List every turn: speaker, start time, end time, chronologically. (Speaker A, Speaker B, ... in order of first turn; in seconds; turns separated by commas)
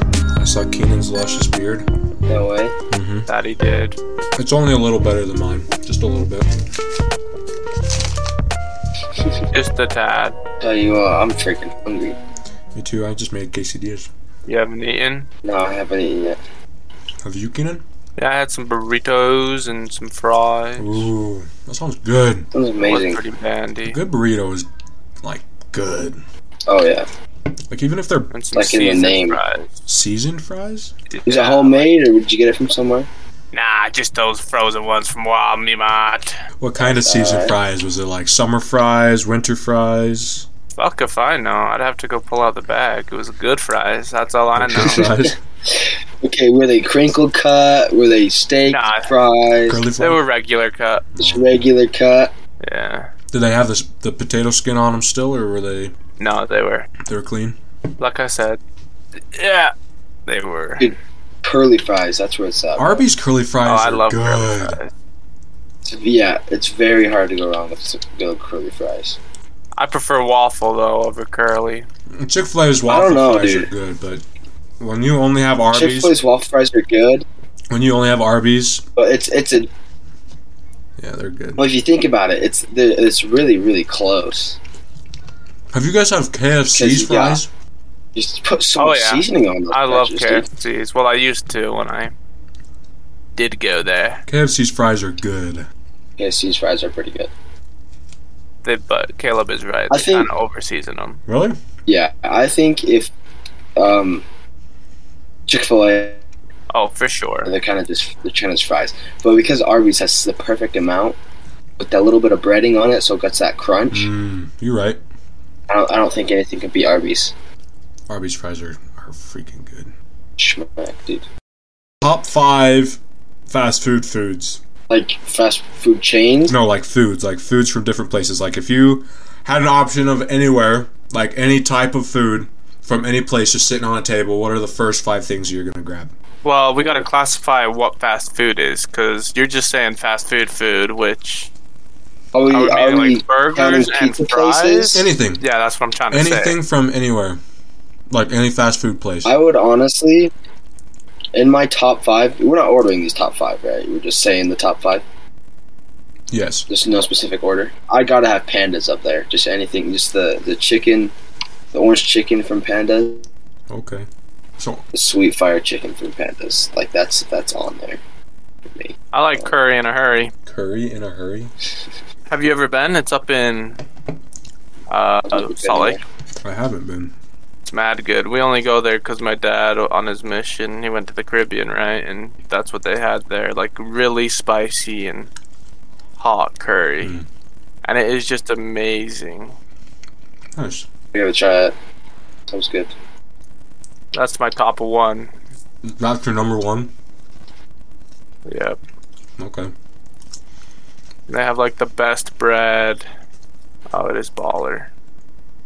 Speaker A: 0.3-1.9, Speaker B: 2.3-2.7, Speaker A: 2.9-3.2, Speaker C: 3.3-4.0, Speaker A: 4.3-6.5, Speaker C: 9.5-10.4, Speaker B: 10.6-12.2, Speaker A: 12.7-14.1, Speaker C: 14.4-15.3, Speaker B: 15.4-16.4, Speaker A: 17.2-17.8, Speaker C: 18.2-21.1, Speaker A: 20.8-22.5, Speaker B: 22.5-23.2, Speaker C: 22.8-24.0, Speaker A: 23.9-24.7, Speaker A: 25.2-26.2, Speaker B: 26.6-27.1, Speaker A: 27.7-28.3, Speaker C: 28.3-29.7, Speaker B: 28.5-29.4, Speaker A: 29.9-30.9, Speaker C: 31.1-31.9, Speaker B: 31.3-33.1, Speaker C: 33.5-36.4, Speaker A: 36.6-40.5, Speaker B: 36.8-37.5, Speaker C: 40.8-45.1, Speaker A: 44.5-45.4, Speaker B: 45.7-49.8, Speaker C: 48.7-49.1, Speaker A: 49.7-50.2, Speaker C: 50.0-51.1, Speaker A: 51.1-51.7, Speaker B: 51.2-52.3, Speaker C: 52.6-53.1, Speaker A: 53.3-55.9, Speaker C: 56.2-56.9, Speaker A: 57.0-57.6, Speaker C: 58.0-58.6, Speaker C: 59.3-59.7, Speaker C: 60.2-60.9, Speaker B: 60.8-63.0, Speaker A: 62.8-64.8, Speaker C: 63.6-64.9, Speaker B: 65.8-69.2, Speaker C: 69.8-71.9, Speaker A: 72.1-74.2, Speaker B: 72.9-73.7, Speaker A: 74.8-76.2, Speaker B: 75.7-77.2, Speaker A: 77.7-78.8, Speaker B: 79.0-79.7, Speaker A: 81.0-81.7, Speaker B: 81.6-84.6, Speaker A: 85.7-87.5, Speaker B: 86.7-87.4, Speaker B: 88.1-90.5, Speaker C: 88.8-92.1, Speaker C: 93.3-94.2, Speaker A: 94.3-95.7, Speaker B: 96.2-97.3, Speaker C: 98.6-101.2, Speaker B: 99.9-100.3, Speaker A: 101.3-101.6, Speaker B: 101.9-103.1, Speaker B: 103.8-104.2, Speaker B: 105.5-106.2, Speaker C: 106.7-107.5, Speaker B: 107.5-111.2, Speaker B: 111.8-114.1, Speaker A: 113.9-115.0, Speaker B: 115.7-117.3, Speaker A: 118.1-119.9, Speaker B: 120.4-121.2, Speaker A: 122.0-124.6, Speaker B: 124.9-126.5, Speaker A: 126.5-136.1, Speaker C: 136.4-141.5, Speaker B: 142.3-145.1, Speaker C: 142.5-146.6, Speaker A: 144.9-145.4, Speaker A: 146.1-147.4, Speaker A: 148.1-149.3, Speaker B: 149.2-150.3, Speaker B: 151.3-155.0, Speaker A: 156.3-156.7, Speaker B: 156.7-161.1, Speaker B: 161.7-163.2, Speaker A: 163.7-164.1, Speaker A: 164.6-164.8, Speaker B: 164.9-168.0, Speaker B: 168.7-169.5, Speaker C: 169.1-170.3, Speaker A: 170.4-171.5, Speaker C: 172.3-173.8, Speaker C: 174.9-176.0, Speaker B: 175.3-176.0, Speaker A: 176.4-177.1, Speaker C: 177.7-185.3, Speaker C: 186.2-187.2, Speaker C: 187.8-189.5, Speaker A: 190.5-190.8, Speaker B: 191.1-191.7, Speaker B: 192.5-192.9, Speaker C: 194.1-195.3, Speaker A: 195.8-196.9, Speaker C: 198.4-198.8, Speaker A: 199.4-199.7, Speaker C: 201.3-203.0, Speaker C: 203.9-204.9